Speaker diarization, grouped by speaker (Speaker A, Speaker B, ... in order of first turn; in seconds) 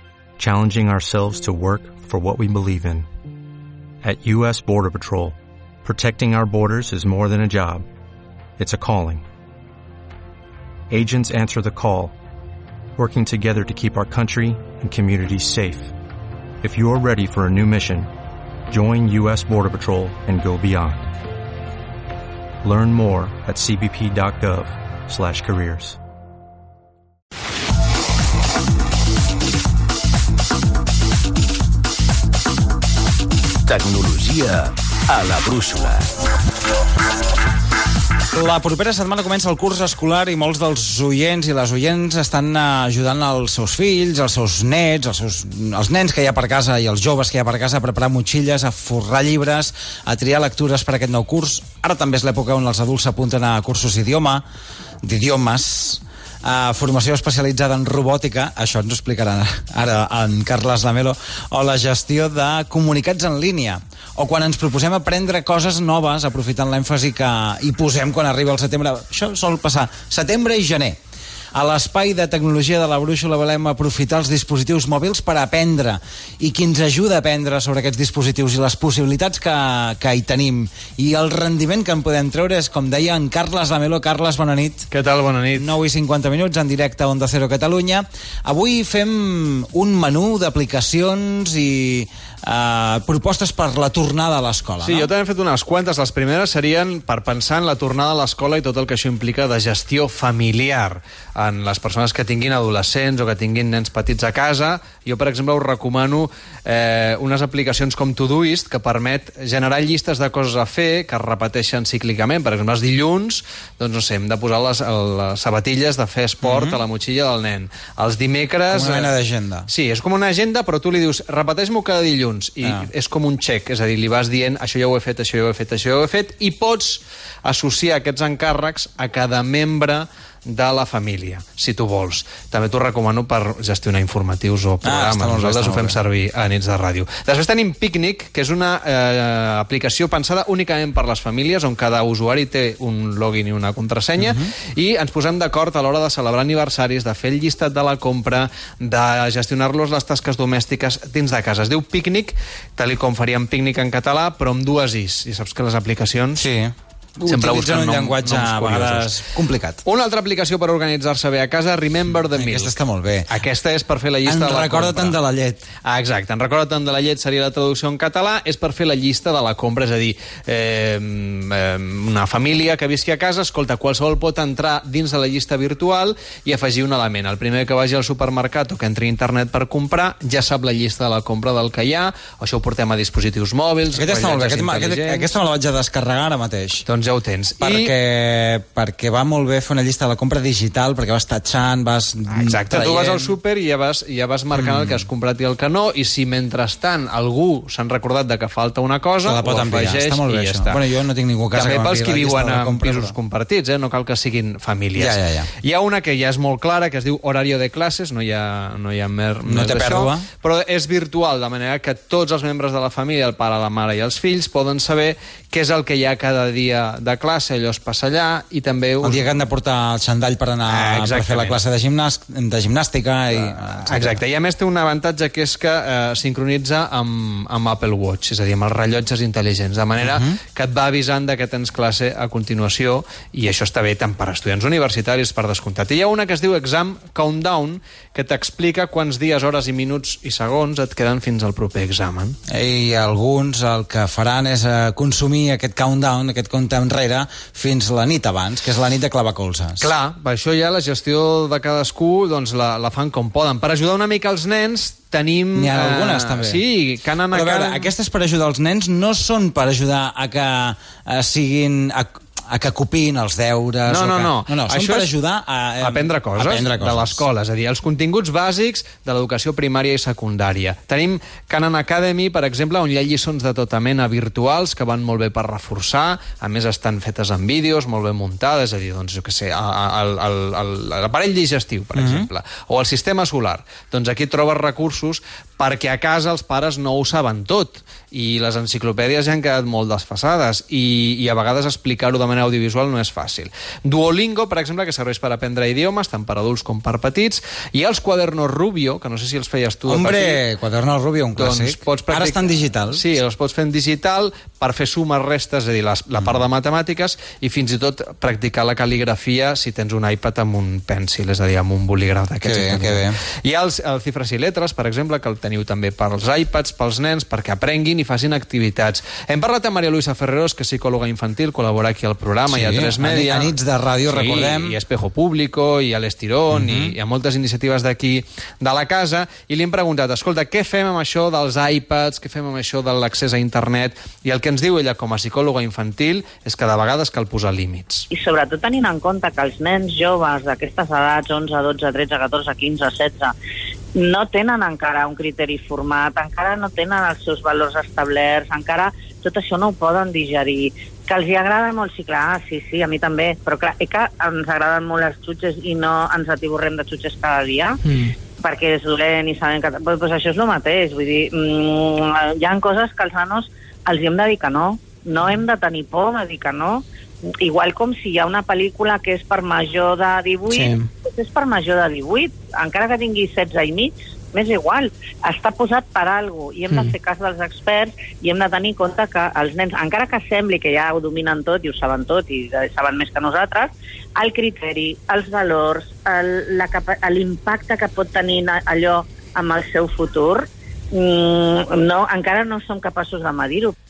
Speaker A: 0.4-3.1, 4.0-7.8, 8.6-9.2, 10.9-12.1, 12.9-15.9, 16.6-18.1, 18.7-21.1, 22.6-26.0
Speaker B: 33.7-36.1
Speaker C: 38.3-54.4, 55.0-71.0, 71.5-84.9, 85.5-95.1, 116.4-116.8, 118.7-119.7, 134.8-136.0, 144.2-144.5, 156.3-159.8, 162.3-163.3, 164.2-165.7, 183.9-186.8, 187.6-193.3, 194.5-195.1, 199.2-203.1, 204.9-205.5, 209.4-210.3, 219.0-224.2, 230.0-230.4, 242.5-249.9, 255.5-256.6, 257.3-267.2, 281.9-282.3, 299.9-303.0, 312.4-313.2, 322.5-324.8, 326.5-326.9
Speaker D: 84.9-85.7, 94.8-119.1, 119.7-156.5, 157.2-159.1, 159.8-162.8, 163.3-165.2, 165.8-185.3, 186.8-187.9, 192.3-200.8, 201.5-219.3, 220.7-221.6, 223.3-242.3, 249.8-257.9, 263.9-265.1, 265.8-300.4, 301.4-338.1
Speaker E: 338.1-343.3, 343.9-366.8, 367.4-393.7